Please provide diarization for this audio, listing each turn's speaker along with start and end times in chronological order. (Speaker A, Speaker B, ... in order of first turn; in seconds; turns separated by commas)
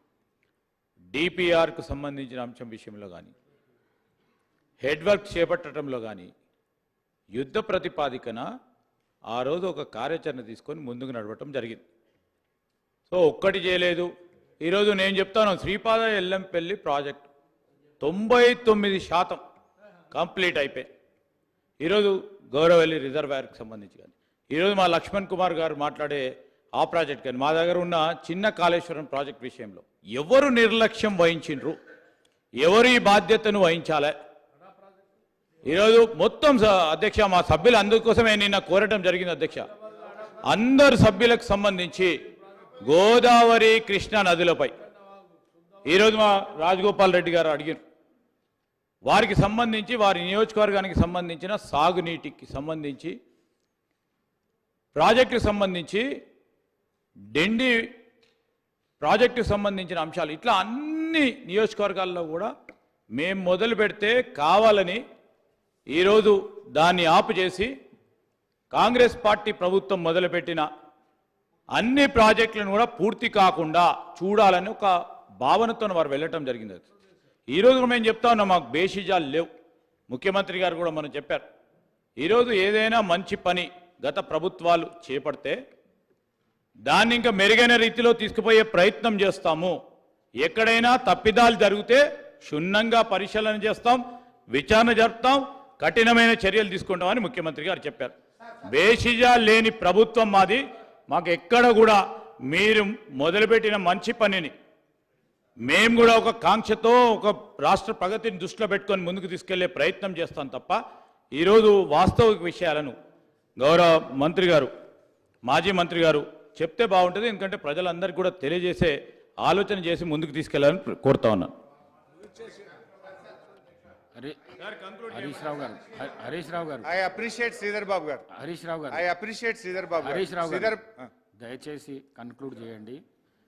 Speaker A: 1.1-3.3, Speaker A: 4.8-6.3, Speaker A: 7.3-8.4, Speaker A: 9.3-11.8, Speaker A: 13.1-14.1, Speaker A: 14.6-17.3, Speaker A: 18.0-19.4, Speaker A: 20.1-20.9, Speaker A: 21.8-26.3, Speaker A: 26.8-31.8, Speaker A: 32.6-34.1, Speaker A: 35.7-39.7, Speaker A: 40.5-42.1, Speaker A: 42.9-44.7, Speaker A: 45.9-47.8, Speaker A: 49.0-53.2, Speaker A: 55.0-56.0, Speaker A: 57.3-57.9, Speaker A: 59.0-62.5, Speaker A: 63.1-65.0, Speaker A: 65.9-67.7, Speaker A: 68.7-70.7, Speaker A: 71.8-76.8, Speaker A: 77.5-79.5, Speaker A: 80.1-81.4, Speaker A: 82.2-85.6, Speaker A: 86.9-89.8, Speaker A: 90.4-98.1, Speaker A: 98.7-104.5, Speaker A: 105.7-110.8, Speaker A: 111.3-112.9, Speaker A: 113.6-114.7, Speaker A: 115.5-121.5, Speaker A: 124.6-125.4, Speaker B: 125.1-126.9, Speaker C: 126.9-128.2, Speaker B: 128.3-129.0, Speaker C: 128.9-131.1, Speaker B: 130.0-130.8, Speaker B: 131.4-133.0